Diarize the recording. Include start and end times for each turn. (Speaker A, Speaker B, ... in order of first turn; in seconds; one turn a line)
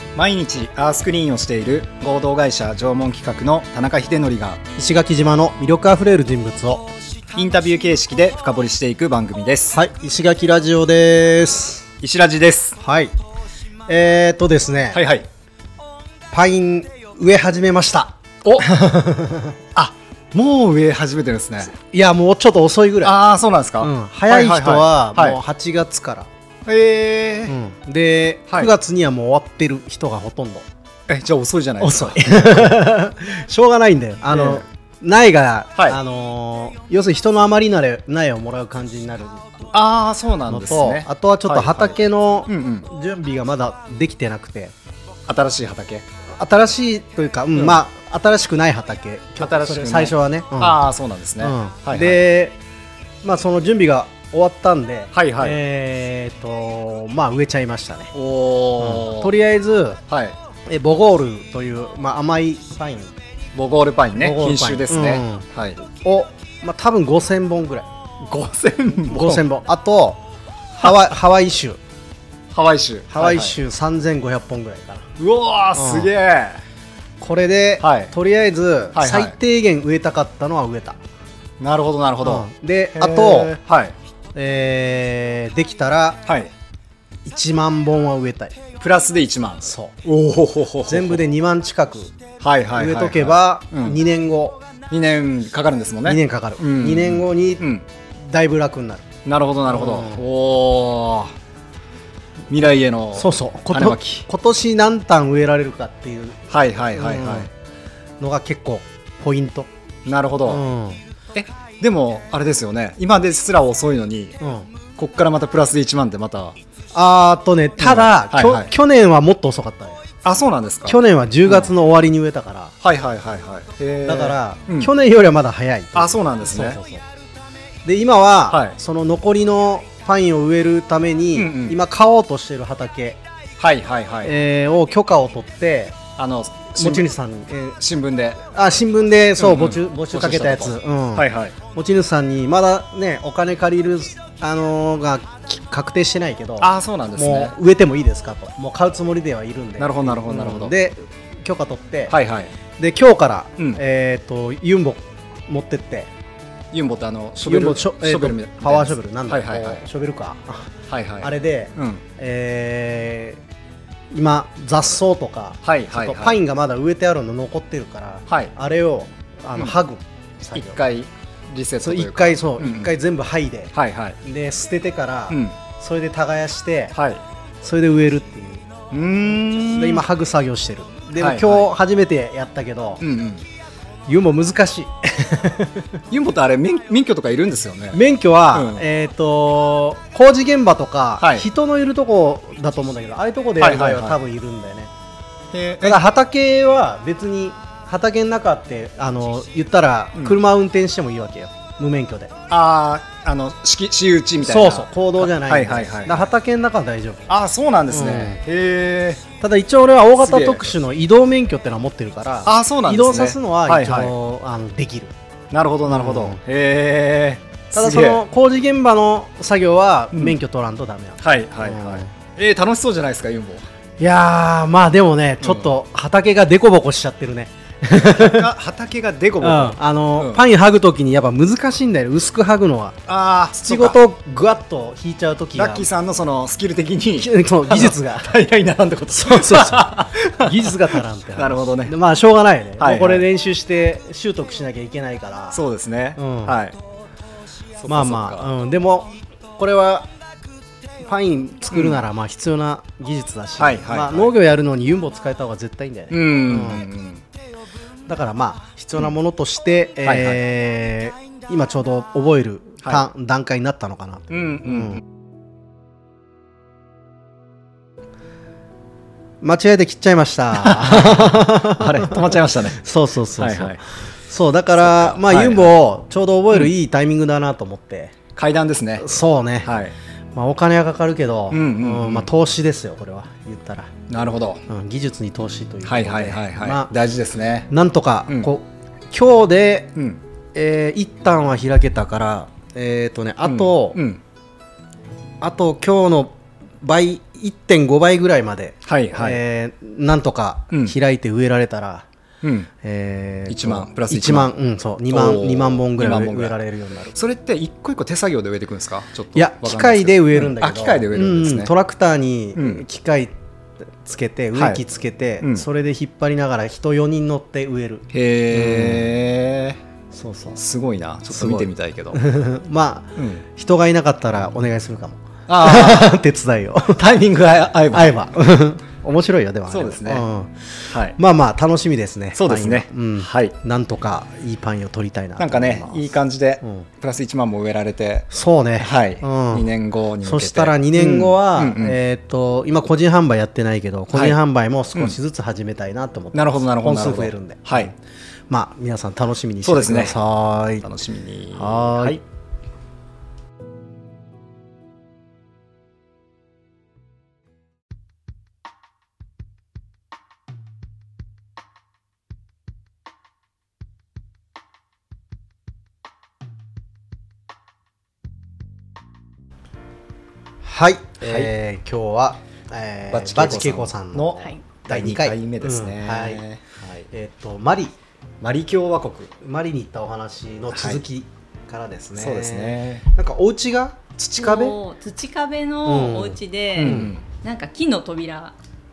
Speaker A: 0.1-4.6
Speaker B: 4.8-6.9
Speaker A: 7.3-9.8
Speaker B: 9.7-11.9
Speaker A: 12.0-12.8
Speaker B: 12.8-13.1
Speaker B: 13.9-15.0
Speaker A: 14.9-15.3
Speaker B: 16.3-19.6
Speaker A: 18.4-18.8
Speaker A: 19.8-21.8
Speaker B: 21.8-23.2
Speaker A: 23.0-25.4
Speaker B: 23.8-26.3
Speaker A: 26.7-27.6
Speaker B: 27.5-30.7
Speaker A: 31.1-32.8
Speaker B: 31.8-39.7
Speaker A: 34.3-34.6
Speaker A: 39.7-42.9
Speaker B: 40.5-44.7
Speaker A: 45.3-46.0
Speaker B: 46.3-50.8
Speaker A: 47.5-47.8
Speaker A: 49.4-52.2
Speaker B: 51.4-52.6
Speaker B: 53.2-58.1
Speaker A: 55.1-55.6
Speaker A: 58.1-59.4
Speaker B: 58.8-60.0
Speaker A: 60.1-60.4
Speaker B: 60.7-63.1
Speaker A: 63.5-65.8
Speaker B: 64.2-67.9
Speaker A: 68.2-69.5
Speaker B: 69.1-70.2
Speaker B: 70.8-71.8
Speaker A: 70.8-71.1
Speaker A: 72.5-73.6
Speaker B: 73.1-75.1
Speaker A: 75.2-76.6
Speaker B: 75.8-76.1
Speaker B: 77.2-81.0
Speaker A: 77.8-78.1
Speaker A: 79.0-79.4
Speaker A: 81.6-84.0
Speaker B: 82.2-83.6
Speaker B: 84.3-86.2
Speaker A: 86.3-86.5
Speaker B: 87.2-88.6
Speaker A: 88.8-91.2
Speaker B: 89.6-90.0
Speaker B: 90.9-92.2
Speaker A: 92.4-94.0
Speaker B: 92.8-94.6
Speaker A: 94.9-97.8
Speaker B: 96.0-99.1
Speaker A: 99.2-101.3
Speaker B: 99.7-100.2
Speaker A: 102.5-104.2
Speaker B: 103.2-107.5
Speaker A: 106.5-107.5
Speaker B: 108.2-109.7
Speaker A: 110.1-110.7
Speaker B: 110.5-111.0
Speaker A: 111.3-114.4
Speaker B: 114.4-114.7
Speaker A: 115.0-116.6
Speaker B: 116.9-120.0
Speaker A: 117.8-118.7
Speaker A: 120.2-121.8
Speaker B: 120.8-122.7
Speaker A: 122.8-124.9
Speaker B: 124.1-127.0
Speaker A: 126.0-126.8
Speaker B: 127.8-133.2
Speaker A: 128.5-128.8
Speaker A: 131.3-131.8
Speaker A: 133.6-134.3
Speaker B: 134.2-136.0
Speaker A: 136.2-137.1
Speaker B: 136.7-137.8
Speaker A: 137.8-138.4
Speaker B: 138.5-152.2
Speaker A: 139.4-141.6
Speaker A: 146.6-147.6
Speaker A: 149.8-150.8
Speaker A: 152.1-152.5
Speaker B: 152.8-156.1
Speaker A: 156.7-159.9
Speaker B: 157.4-163.4
Speaker A: 160.9-162.0
Speaker B: 164.1-170.8
Speaker A: 165.6-166.4
Speaker A: 170.5-173.0
Speaker B: 171.8-176.9
Speaker A: 173.7-174.2
Speaker A: 175.3-175.6
Speaker A: 176.9-177.2
Speaker B: 177.6-178.7
Speaker A: 178.9-180.1
Speaker B: 179.7-183.0
Speaker A: 181.2-181.7
Speaker A: 183.0-183.4
Speaker B: 184.1-186.0
Speaker A: 186.1-188.0
Speaker B: 187.9-194.9
Speaker A: 188.5-188.8
Speaker A: 191.2-191.5
Speaker A: 193.6-194.2
Speaker A: 195.5-196.0
Speaker B: 195.8-202.3
Speaker A: 202.5-206.3
Speaker B: 204.4-207.3
Speaker A: 207.3-209.2
Speaker B: 207.9-208.4
Speaker B: 209.4-215.1
Speaker A: 210.2-210.7
Speaker A: 212.4-214.2
Speaker A: 215.5-218.2
Speaker B: 215.9-216.4
Speaker B: 217.7-222.1
Speaker A: 221.2-223.7
Speaker B: 224.0-228.5
Speaker A: 225.4-225.7
Speaker A: 228.0-230.4
Speaker B: 229.4-233.0
Speaker A: 233.1-234.0
Speaker B: 233.6-235.9
Speaker A: 235.6-242.0
Speaker B: 237.2-238.3
Speaker B: 239.1-245.6
Speaker A: 242.8-243.3
Speaker A: 245.5-246.8
Speaker B: 246.2-246.6
Speaker A: 247.8-248.5
Speaker B: 247.9-250.1
Speaker B: 251.0-256.8
Speaker A: 251.7-252.1
Speaker A: 253.6-254.3
Speaker A: 256.1-257.2
Speaker B: 258.1-265.0
Speaker A: 260.0-260.4
Speaker A: 264.3-265.0
Speaker B: 269.4-278.2
Speaker A: 270.5-272.8
Speaker A: 273.4-273.8
Speaker A: 274.8-275.7
Speaker A: 278.4-279.1
Speaker B: 279.0-279.7
Speaker A: 279.6-279.9
Speaker B: 280.4-283.9
Speaker A: 281.5-282.3
Speaker A: 284.1-284.6
Speaker B: 284.7-286.9
Speaker A: 285.8-287.7
Speaker B: 287.7-289.9
Speaker A: 290.0-290.2
Speaker B: 290.6-294.0
Speaker A: 293.4-294.2
Speaker B: 295.4-302.1
Speaker A: 298.9-299.4
Speaker A: 302.4-302.7
Speaker B: 302.8-307.1
Speaker A: 303.5-304.5
Speaker A: 305.1-306.6
Speaker A: 307.1-311.7
Speaker B: 309.4-313.3
Speaker A: 312.6-312.8
Speaker B: 313.9-319.1
Speaker A: 314.5-314.8
Speaker A: 318.1-319.8
Speaker B: 320.1-320.6
Speaker A: 320.5-322.2
Speaker B: 321.3-327.1
Speaker A: 323.2-323.4
Speaker A: 325.5-326.1
Speaker A: 326.9-328.3
Speaker B: 327.9-336.9
Speaker A: 329.7-330.3
Speaker A: 330.9-331.2
Speaker A: 332.3-333.6
Speaker A: 335.4-342.0
Speaker B: 338.3-339.7
Speaker B: 340.2-347.9
Speaker A: 344.1-344.4
Speaker A: 346.3-347.9
Speaker B: 348.5-350.9
Speaker A: 349.6-350.2
Speaker A: 350.8-352.2
Speaker B: 351.6-352.2
Speaker B: 370.6-376.4
Speaker A: 371.2-371.5
Speaker A: 373.1-377.1
Speaker B: 377.1-377.9
Speaker A: 378.4-379.3
Speaker B: 379.4-384.8
Speaker A: 380.7-381.0
Speaker A: 382.1-383.1
Speaker C: 384.4-388.6
Speaker B: 385.9-387.1
Speaker A: 386.8-387.2